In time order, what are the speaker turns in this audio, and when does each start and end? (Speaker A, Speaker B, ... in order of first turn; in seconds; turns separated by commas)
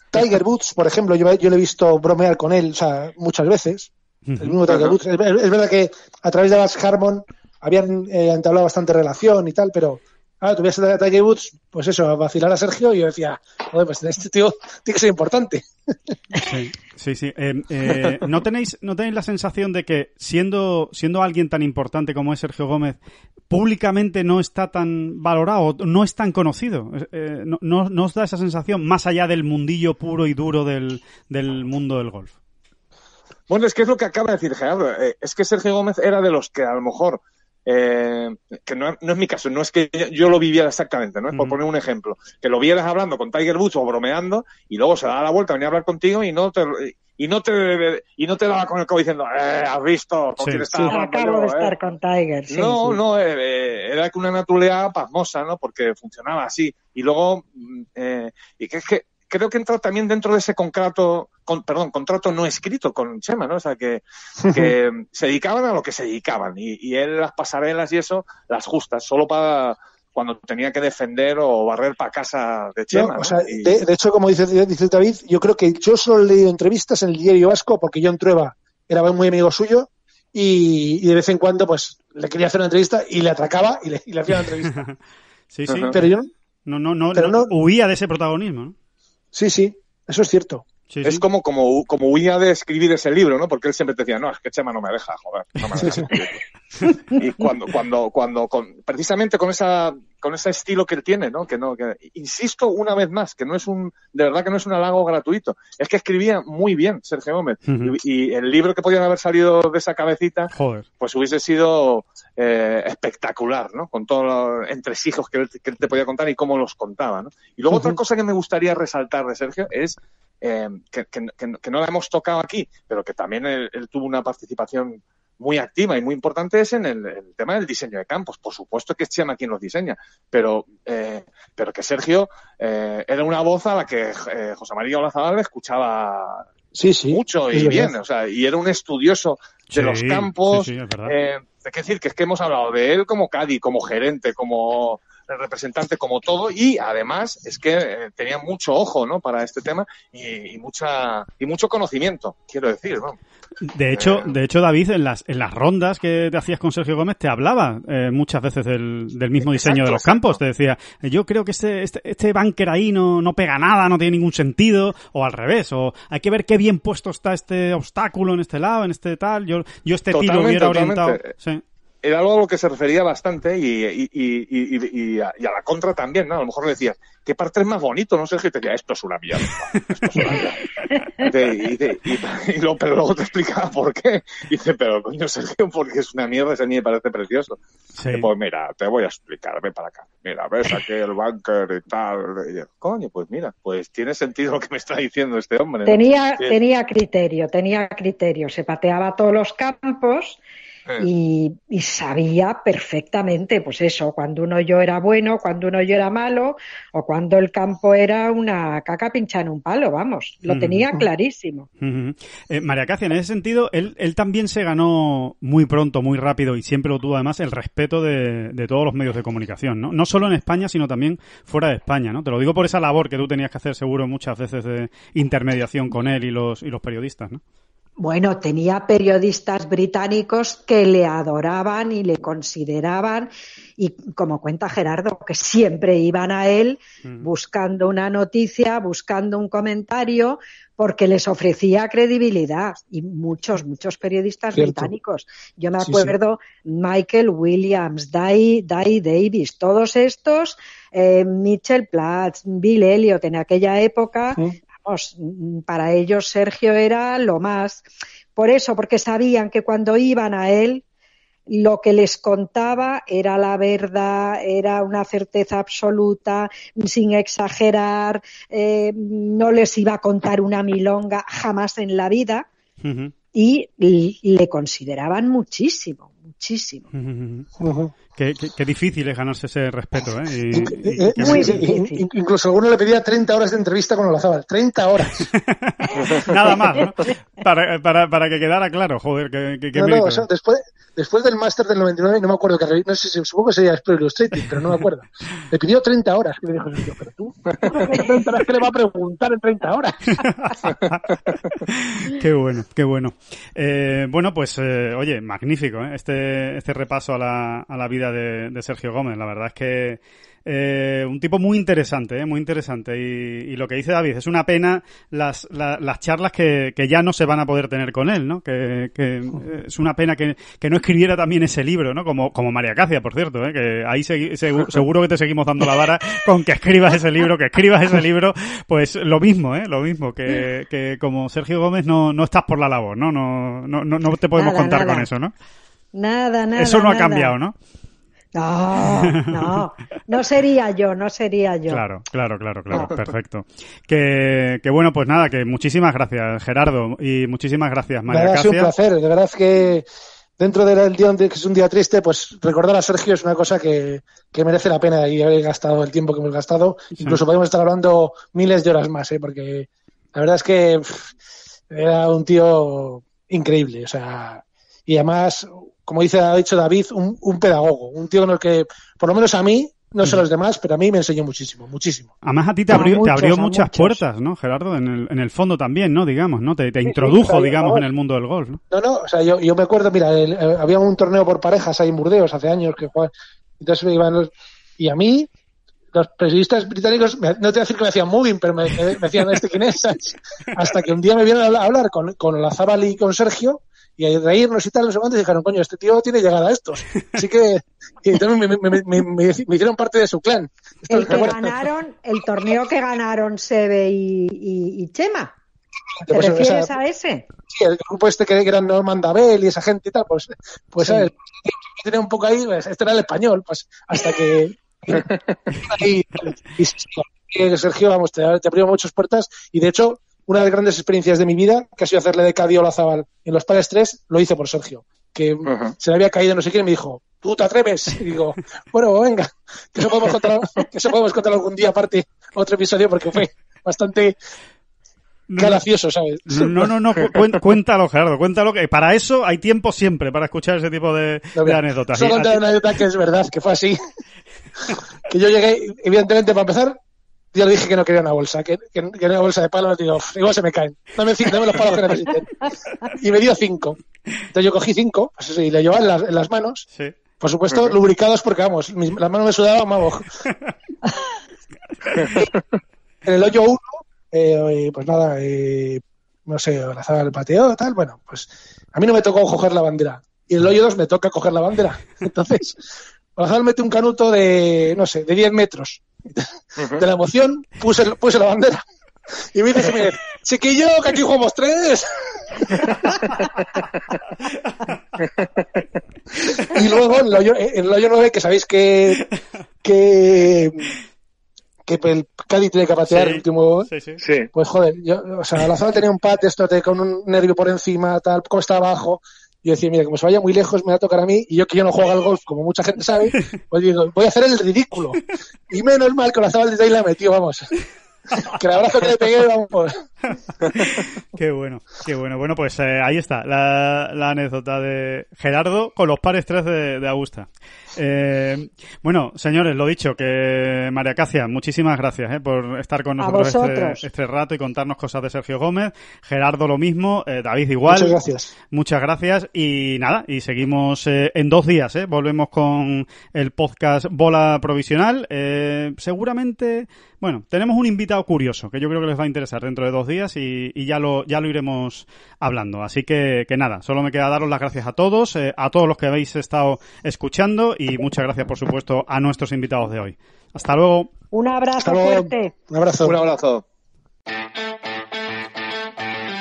Speaker A: 0.1-15.7, Speaker B: 4.3-4.6, Speaker C: 4.7-4.9, Speaker B: 16.4-23.0, Speaker B: 23.5-32.3, Speaker C: 33.5-51.7, Speaker B: 41.3-41.6, Speaker B: 50.4-50.7, Speaker D: 50.9-53.0, Speaker C: 52.5-73.7, Speaker A: 64.5-64.7, Speaker A: 72.9-84.9, Speaker B: 85.5-86.1, Speaker C: 85.7-85.9, Speaker A: 85.9-86.3, Speaker B: 86.7-88.7, Speaker A: 87.1-87.5, Speaker A: 89.3-90.6, Speaker B: 90.9-91.2, Speaker C: 91.0-136.5, Speaker A: 95.8-96.1, Speaker B: 107.7-107.9, Speaker B: 110.5-110.9, Speaker A: 136.7-137.9, Speaker C: 137.1-153.2, Speaker B: 139.7-141.1, Speaker B: 153.7-171.6, Speaker C: 153.9-154.3, Speaker C: 159.4-160.4, Speaker C: 170.1-171.3, Speaker C: 172.0-180.7, Speaker B: 180.0-180.5, Speaker D: 180.9-181.2, Speaker C: 181.2-187.6, Speaker B: 188.0-188.3, Speaker C: 188.1-196.6, Speaker D: 195.9-200.4, Speaker D: 201.0-211.7, Speaker B: 210.5-210.9, Speaker B: 211.8-227.4, Speaker D: 228.0-260.8, Speaker A: 244.5-244.9, Speaker A: 245.8-246.1, Speaker D: 261.5-272.5, Speaker B: 272.8-273.1, Speaker D: 273.3-276.9, Speaker B: 276.9-277.5, Speaker A: 277.6-277.9, Speaker B: 278.1-281.6, Speaker A: 280.5-285.3, Speaker D: 281.1-282.0, Speaker B: 285.2-290.3, Speaker D: 285.9-287.1, Speaker A: 289.7-300.0, Speaker D: 297.7-298.1, Speaker B: 300.2-335.3, Speaker D: 334.4-335.1, Speaker D: 335.9-337.3, Speaker B: 336.6-337.6, Speaker D: 338.3-341.8, Speaker B: 338.9-339.5, Speaker B: 341.7-348.7, Speaker A: 348.1-349.9, Speaker A: 350.4-361.1, Speaker A: 361.7-372.1, Speaker B: 372.2-378.6, Speaker A: 372.7-374.0, Speaker D: 373.0-373.7, Speaker A: 376.9-377.9, Speaker A: 378.7-385.3, Speaker A: 385.9-401.5, Speaker D: 400.9-405.3, Speaker A: 405.9-406.7, Speaker D: 406.1-407.3, Speaker A: 407.5-434.1, Speaker D: 410.8-411.1, Speaker C: 425.4-425.7, Speaker B: 435.3-435.6, Speaker A: 435.4-436.7, Speaker B: 436.3-442.4, Speaker A: 441.4-443.8, Speaker A: 445.1-446.8, Speaker A: 447.3-453.8, Speaker A: 454.3-456.6, Speaker A: 457.2-460.1, Speaker C: 462.0-462.3, Speaker A: 462.0-462.3, Speaker A: 463.1-472.6, Speaker A: 473.1-478.6, Speaker A: 479.3-482.9, Speaker A: 486.3-489.1, Speaker A: 489.6-490.7, Speaker A: 491.6-493.7, Speaker B: 492.9-494.0, Speaker C: 494.0-494.3, Speaker A: 494.3-507.6, Speaker A: 508.2-509.7, Speaker B: 510.6-528.0, Speaker D: 523.0-523.8, Speaker A: 527.6-528.3, Speaker B: 528.5-550.9, Speaker D: 551.1-552.3, Speaker A: 551.6-553.0, Speaker C: 552.8-553.4